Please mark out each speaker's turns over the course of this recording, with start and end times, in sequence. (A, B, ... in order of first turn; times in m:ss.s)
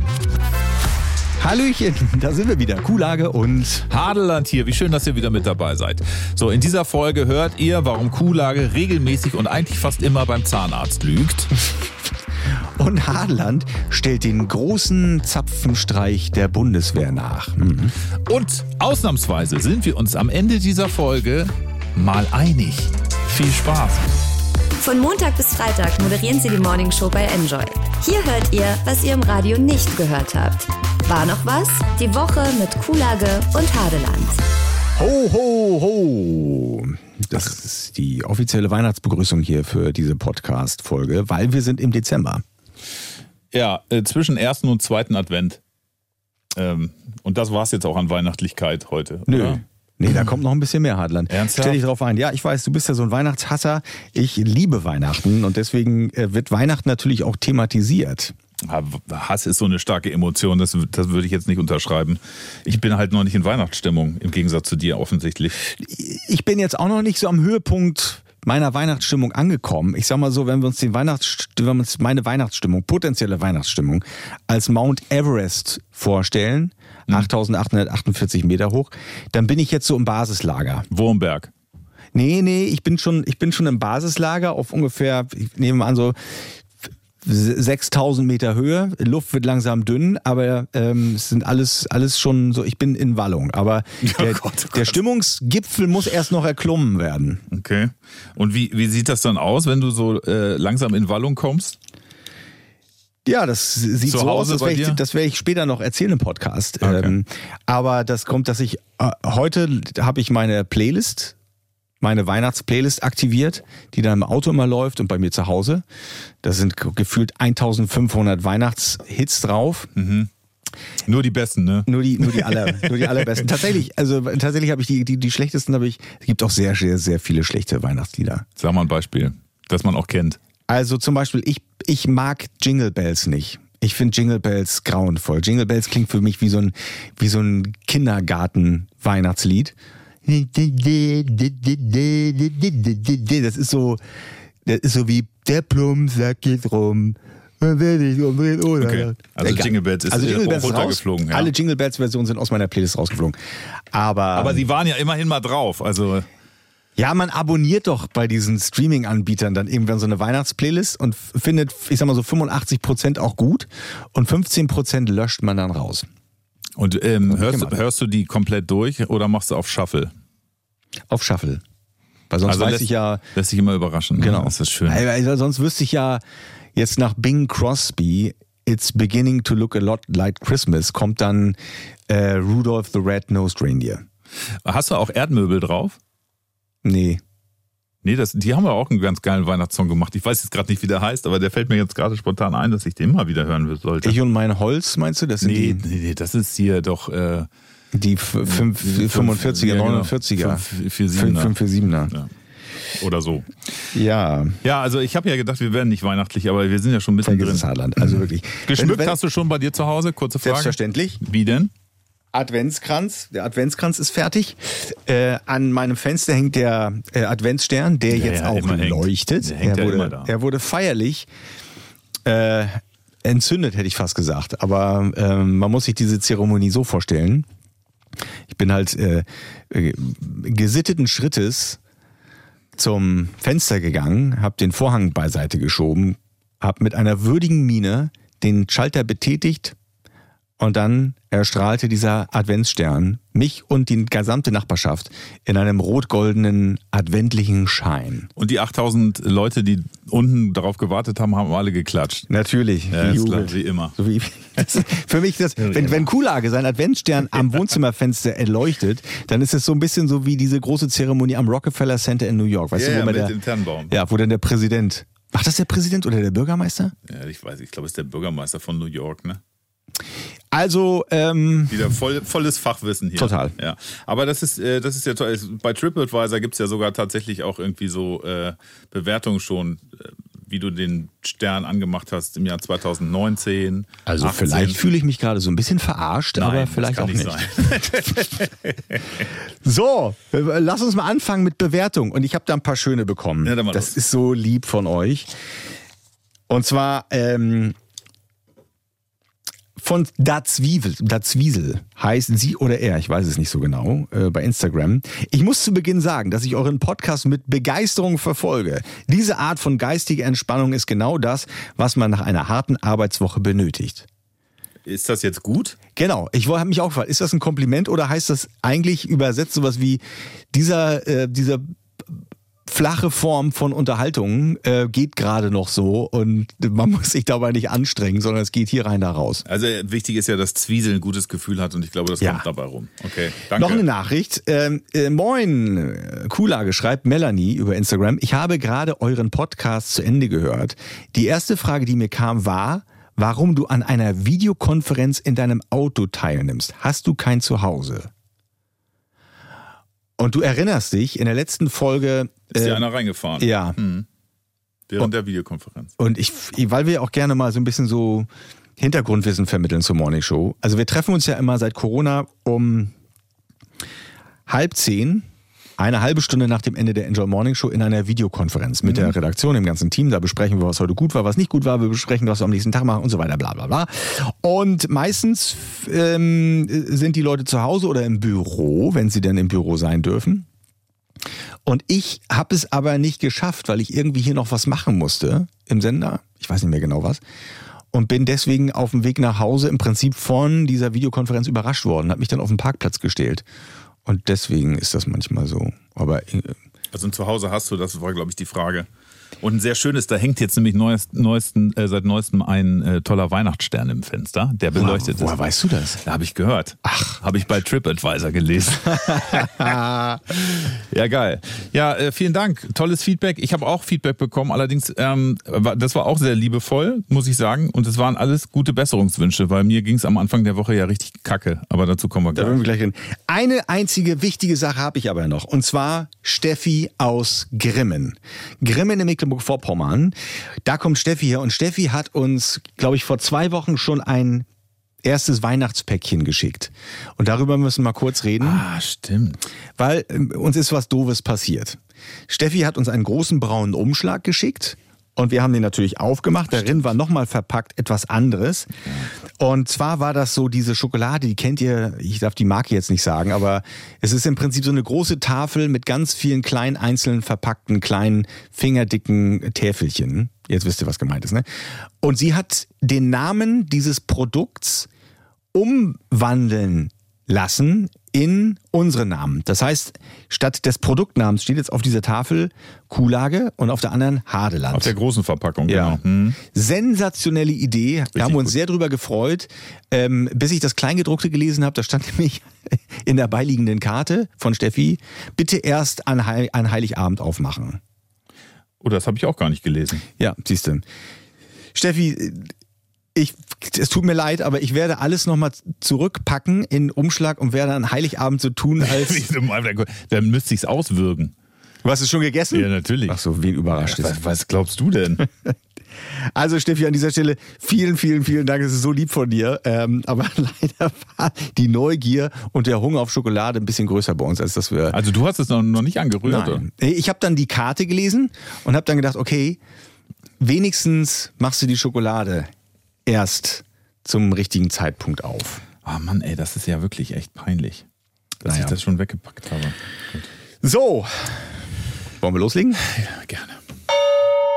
0:01.4-0:03.9 A
0:03.9-0:11.5 B
0:12.8-0:18.0 A
0:18.2-0:24.1 B
0:24.8-0:34.4 C
0:35.0-0:42.4 A
0:43.5-0:45.6 B
0:46.6-0:49.6 B
0:49.3-0:58.3 A
0:51.3-0:51.8 B
0:58.6-1:05.7 B
1:05.6-1:20.9 A
1:20.9-1:21.5 B
1:22.1-1:26.6 A
1:27.2-1:37.4 A
1:34.0-1:34.9 B
1:37.5-1:41.8 B
1:43.2-1:51.4 A
1:44.0-1:45.0 B
1:46.8-1:47.1 B
1:52.0-1:55.8 A
1:56.4-1:59.9 A
2:00.0-2:00.3 B
2:01.0-2:03.5 B
2:01.9-2:08.5 A
2:08.6-2:10.4 B
2:10.7-2:24.0 A
2:24.6-2:33.4 A
2:28.8-2:31.5 B
2:33.9-2:34.7 A
2:34.3-2:36.3 B
2:37.0-2:46.1 A
2:46.8-2:50.1 B
2:47.3-2:47.8 A
2:51.1-2:51.6 A
2:52.3-2:53.2 A
2:52.4-2:55.0 B
2:54.2-2:56.2 A
2:56.8-3:04.0 A
3:04.6-3:06.0 B
3:06.8-3:07.2 A
3:08.0-3:14.2 B
3:14.0-3:15.8 A
3:15.4-3:17.5 B
3:17.9-3:22.1 A
3:18.4-3:22.3 B
3:22.9-3:23.9 B
3:23.9-3:24.6 A
3:24.6-3:31.7 B
3:27.2-3:29.2 A
3:30.4-3:31.2 A
3:32.3-3:41.3 A
3:38.1-3:40.3 B
3:42.2-3:47.5 A
3:48.5-3:51.8 A
3:52.8-3:59.8 A
4:00.6-4:08.3 A
4:08.4-4:12.3 B
4:12.3-4:23.4 A
4:12.9-4:13.9 B
4:15.6-4:16.1 B
4:22.7-4:23.9 B
4:23.9-4:26.9 A
4:27.1-4:29.4 B
4:30.5-4:31.9 A
4:31.7-4:44.8 B
4:33.2-4:33.5 A
4:44.1-4:47.9 A
4:46.4-4:49.2 B
4:49.6-4:55.3 A
4:53.4-4:54.0 B
4:56.5-4:57.8 A
4:59.8-5:14.1 A
5:14.9-5:15.8 B
5:16.0-5:20.0 A
5:20.5-5:29.4 A
5:29.4-5:33.8 B
5:32.2-5:32.4 A
5:33.5-5:48.1 A
5:50.2-5:52.8 A
5:52.5-5:54.1 B
5:53.4-5:53.8 A
5:54.9-5:55.9 B
5:56.0-6:02.9 A
6:04.5-6:20.5 A
6:21.6-6:27.2 A
6:27.9-6:33.4 A
6:34.0-6:36.6 A
6:36.9-6:38.9 B
6:39.4-6:45.4 B
6:44.8-6:46.0 A
6:46.0-6:49.8 B
6:46.9-6:47.2 A
6:49.0-6:50.2 A
6:50.3-7:02.6 B
7:02.4-7:14.5 A
7:15.0-7:18.6 A
7:18.4-7:19.4 B
7:19.8-7:28.7 A
7:26.5-7:26.9 B
7:29.4-7:44.9 A
7:45.5-7:54.9 A
7:54.7-7:56.4 B
7:55.7-8:07.8 A
7:58.2-7:58.5 B
8:08.8-8:10.1 B
8:10.2-8:10.8 A
8:11.7-8:12.6 A
8:13.1-8:19.3 A
8:18.8-8:21.3 B
8:21.8-8:24.2 A
8:22.5-8:23.2 B
8:23.8-8:25.3 B
8:26.0-8:35.0 A
8:34.9-8:36.6 B
8:36.2-8:39.6 A
8:40.4-8:42.5 A
8:43.0-8:45.6 A
8:45.8-8:47.8 B
8:48.4-8:48.8 A
8:48.4-8:50.3 B
8:50.6-8:52.8 A
8:52.8-8:53.6 B